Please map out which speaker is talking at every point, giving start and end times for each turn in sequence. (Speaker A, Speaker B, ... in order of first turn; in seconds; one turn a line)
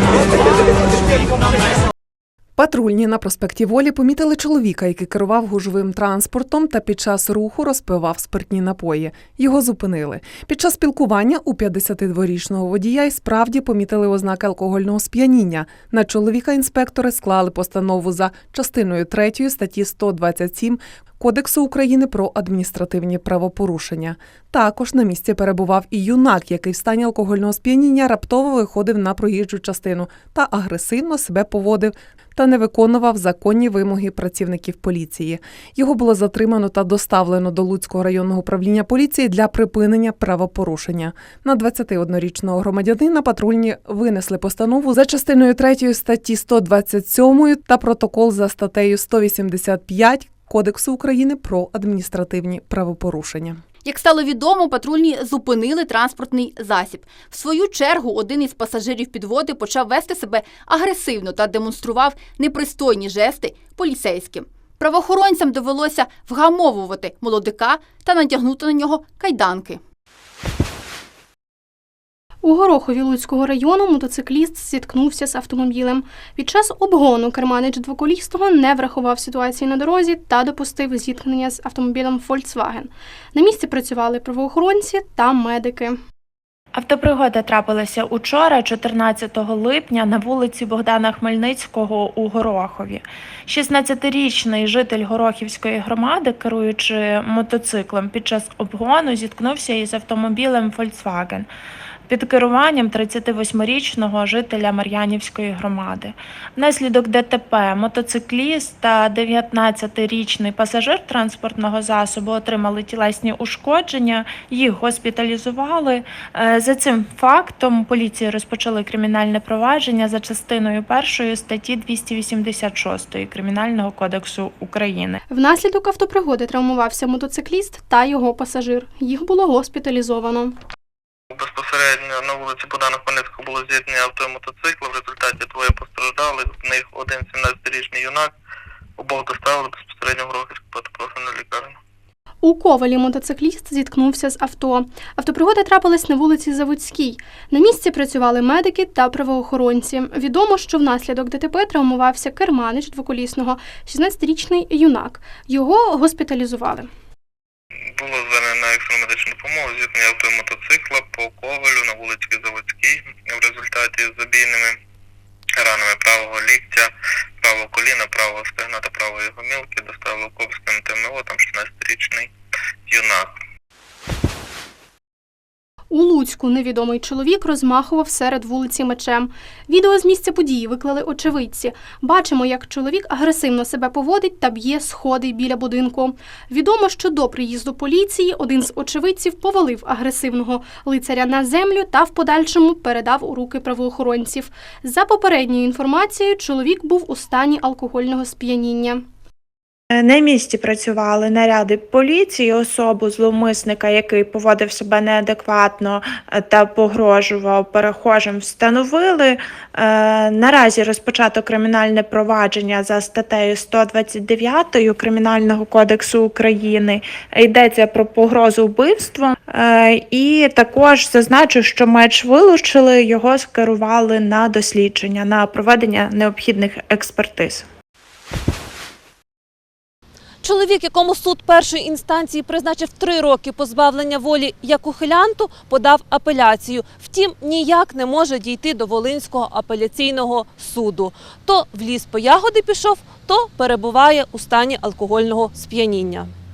Speaker A: 2.6-53.6
Speaker B: 53.8-69.8
Speaker C: 72.4-86.0
Speaker D: 86.7-101.5
Speaker D: 102.1-125.2
Speaker C: 125.3-130.6
Speaker E: 131.3-138.3
Speaker E: 139.0-141.7
Speaker C: 142.4-156.9
Speaker E: 158.0-164.8
Speaker E: 165.6-172.3
Speaker E: 172.9-173.3
Speaker C: 175.9-199.0
Speaker D: 199.9-227.6
Speaker F: 230.4-246.3